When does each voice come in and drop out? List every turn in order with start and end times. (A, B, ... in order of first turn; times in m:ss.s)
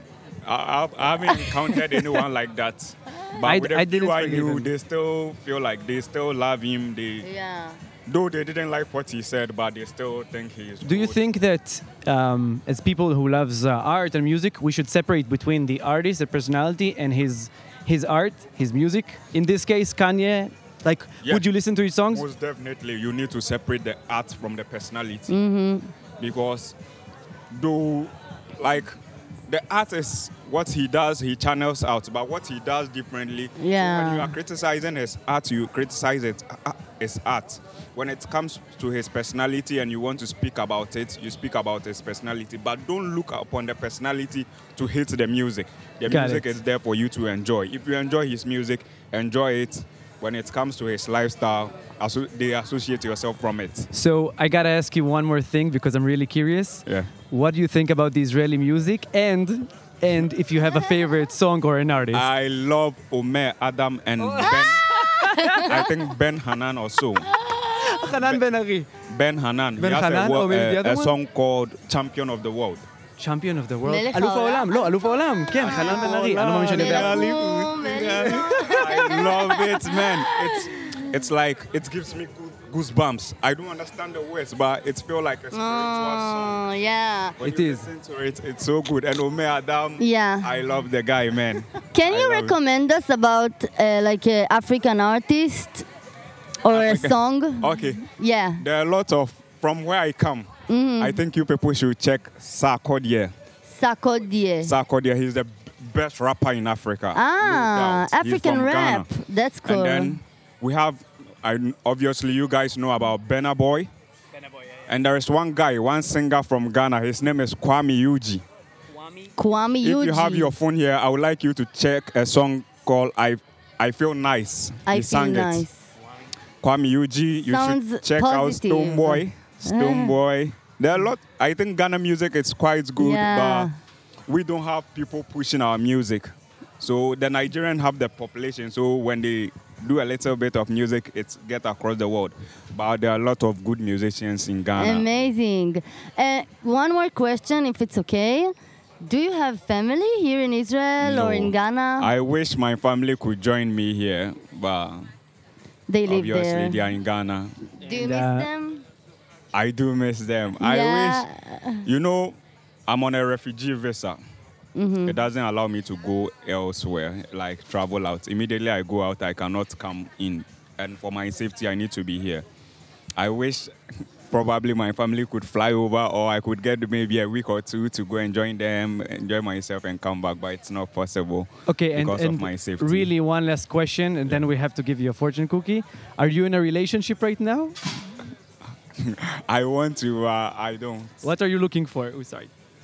0:00.4-0:07.3 A
0:01.3-0:02.0 B
0:03.4-0:04.7 C
0:07.2-0:07.8 B
0:08.1-0:11.2 A
0:10.8-0:22.2 C
0:22.1-0:25.3 A
0:25.3-0:25.9 B
0:26.2-0:26.8 A
0:27.5-0:29.0 A
0:29.5-0:53.9 A
0:33.6-0:34.4 B
0:46.1-0:46.5 C
0:53.9-1:02.3 C
0:56.9-0:57.1 A
1:02.1-1:04.9 A
1:04.2-1:05.9 C
1:04.5-1:05.7 B
1:05.6-1:07.3 A
1:07.4-1:08.9 C
1:08.1-1:08.4 A
1:09.0-1:12.9 A
1:09.8-1:11.1 C
1:13.2-1:17.4 C
1:13.9-1:16.1 B
1:15.6-1:26.6 A
1:16.7-1:21.0 B
1:18.2-1:18.7 C
1:25.5-1:27.4 B
1:27.4-1:32.6 A
1:27.4-1:27.9 C
1:30.0-1:30.5 B
1:31.9-1:35.9 B
1:36.6-1:38.6 B
1:36.7-1:38.1 A
1:38.6-1:43.3 A
1:40.7-1:41.2 B
1:43.7-1:44.7 B
1:44.6-1:49.1 A
1:47.2-1:50.2 B
1:49.7-1:53.9 A
1:54.9-1:58.4 A
1:59.4-2:00.5 B
1:59.8-2:05.7 A
2:04.9-2:05.9 B
2:06.6-2:13.7 A
2:07.5-2:10.1 B
2:13.0-2:13.7 B
2:14.3-2:25.1 A
2:24.8-2:32.1 B
2:31.0-2:35.1 A
2:35.9-2:36.8 B
2:36.1-2:37.6 A
2:37.8-2:38.8 B
2:37.9-2:38.5 C
2:39.5-2:41.3 A
2:40.6-2:41.8 B
2:41.8-2:44.2 A
2:44.8-2:45.2 B
2:45.0-2:52.4 A
2:53.2-2:53.7 A
2:54.3-3:03.1 A
3:01.7-3:07.8 C
3:09.0-3:11.3 A
3:11.2-3:12.5 C